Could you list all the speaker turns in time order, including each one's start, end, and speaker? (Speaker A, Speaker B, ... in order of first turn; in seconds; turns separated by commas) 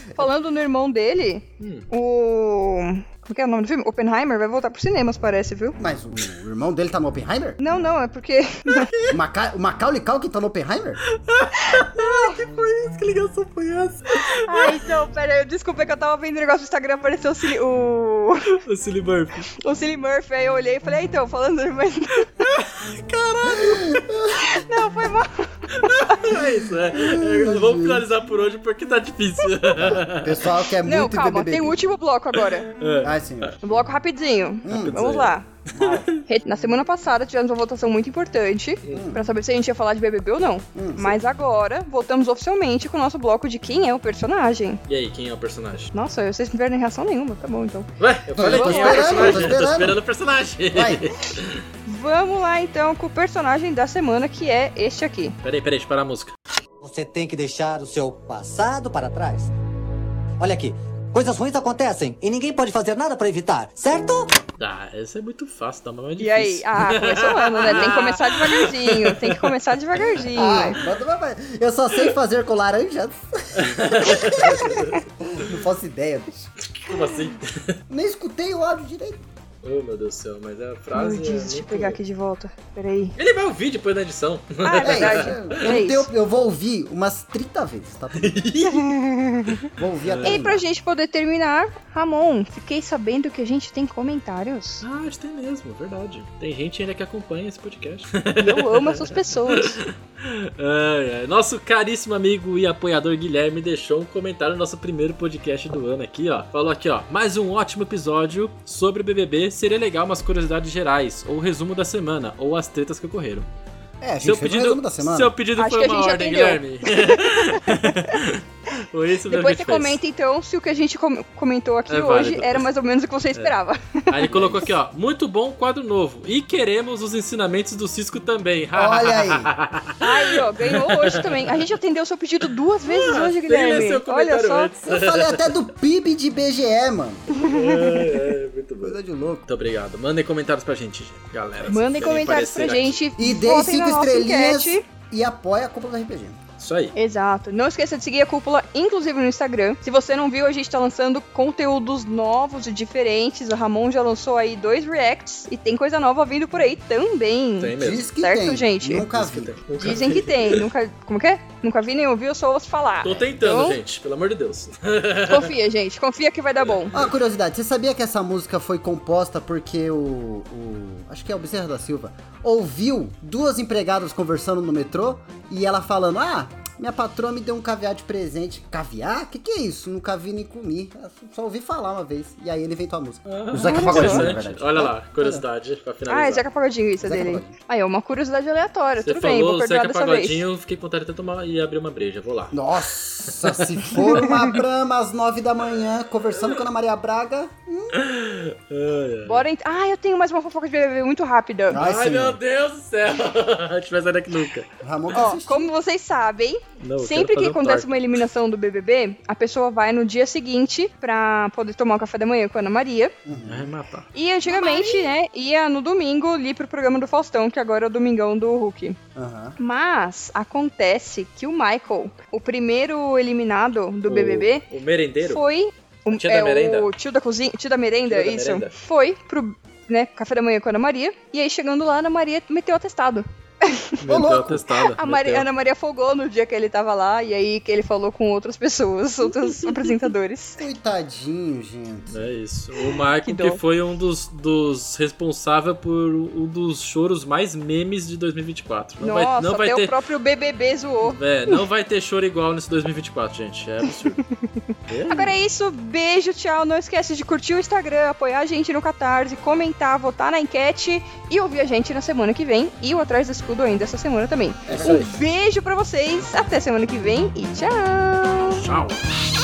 Speaker A: 0.2-5.8, Speaker B: 1.6-1.9, Speaker C: 5.8-7.6, Speaker A: 7.6-8.9, Speaker B: 8.8-9.2, Speaker C: 9.1-11.0, Speaker B: 11.1-14.8, Speaker A: 11.6-12.3, Speaker A: 14.3-18.6, Speaker B: 18.6-19.5, Speaker A: 19.6-22.3, Speaker B: 22.4-24.0, Speaker C: 23.5-24.4, Speaker A: 24.3-26.2, Speaker B: 25.7-30.6, Speaker C: 26.9-28.1, Speaker C: 29.8-31.8, Speaker A: 30.8-32.7, Speaker B: 32.8-33.5, Speaker C: 33.0-33.6, Speaker A: 33.6-35.5, Speaker C: 34.6-35.1, Speaker B: 34.7-36.2, Speaker C: 35.8-36.1, Speaker A: 36.2-44.8, Speaker B: 38.8-39.1, Speaker C: 38.9-39.3, Speaker C: 40.8-41.2, Speaker B: 44.9-45.9, Speaker A: 45.9-47.9, Speaker B: 48.0-51.6, Speaker C: 48.4-50.0, Speaker A: 48.5-49.5, Speaker C: 50.7-51.0, Speaker A: 51.9-55.4, Speaker B: 55.4-56.3, Speaker D: 56.8-59.5, Speaker D: 60.4-64.4, Speaker B: 64.6-69.5, Speaker A: 66.2-70.8, Speaker C: 70.3-76.5, Speaker B: 73.5-75.0, Speaker A: 74.4-75.0, Speaker B: 76.8-77.8, Speaker C: 77.9-79.2, Speaker B: 79.6-82.0, Speaker A: 81.0-83.2, Speaker B: 83.2-85.8, Speaker A: 84.6-86.1, Speaker C: 84.8-88.6, Speaker B: 88.2-90.4, Speaker A: 88.7-89.7, Speaker C: 89.8-90.6, Speaker A: 90.2-94.8, Speaker B: 94.8-113.5, Speaker A: 98.4-99.8, Speaker C: 114.0-115.3, Speaker B: 114.2-120.0, Speaker A: 115.6-118.2, Speaker A: 119.3-124.3, Speaker B: 121.9-122.7, Speaker B: 124.1-131.7, Speaker C: 124.2-124.7, Speaker C: 128.7-129.5, Speaker A: 130.0-134.7, Speaker B: 132.9-135.6, Speaker C: 134.8-137.3, Speaker A: 137.3-138.2, Speaker B: 137.4-143.0, Speaker C: 138.8-139.5, Speaker A: 141.7-144.8, Speaker C: 143.2-146.4, Speaker B: 146.6-146.9, Speaker A: 146.9-159.1, Speaker B: 157.6-158.1, Speaker C: 157.8-159.6, Speaker B: 159.1-160.7, Speaker A: 159.8-163.8, Speaker B: 163.0-165.6, Speaker A: 165.3-167.0, Speaker B: 166.6-167.1, Speaker C: 166.9-185.4, Speaker B: 183.3-186.4, Speaker A: 183.6-184.3, Speaker A: 186.1-190.4, Speaker C: 187.0-187.5, Speaker B: 189.0-192.6, Speaker C: 192.5-198.0, Speaker B: 193.4-194.4, Speaker B: 196.3-196.6, Speaker B: 197.9-199.5, Speaker A: 199.3-201.8, Speaker C: 201.7-202.4, Speaker B: 201.7-204.7, Speaker C: 204.8-205.7, Speaker A: 205.1-213.1, Speaker B: 206.8-208.0, Speaker C: 213.2-213.7, Speaker B: 213.5-214.1, Speaker A: 214.1-219.0, Speaker C: 214.5-215.1, Speaker C: 219.2-219.6, Speaker A: 219.6-224.7, Speaker B: 224.1-225.4, Speaker A: 225.2-234.0, Speaker B: 226.1-226.9, Speaker B: 228.1-228.8, Speaker B: 234.0-235.5, Speaker C: 234.1-234.7, Speaker A: 234.9-240.6, Speaker C: 240.6-242.2, Speaker B: 242.1-249.9, Speaker A: 243.2-243.6, Speaker A: 249.0-251.6, Speaker B: 251.0-254.2, Speaker A: 254.0-268.6, Speaker B: 254.9-255.3, Speaker C: 264.7-265.0, Speaker B: 264.7-265.1, Speaker B: 268.5-269.0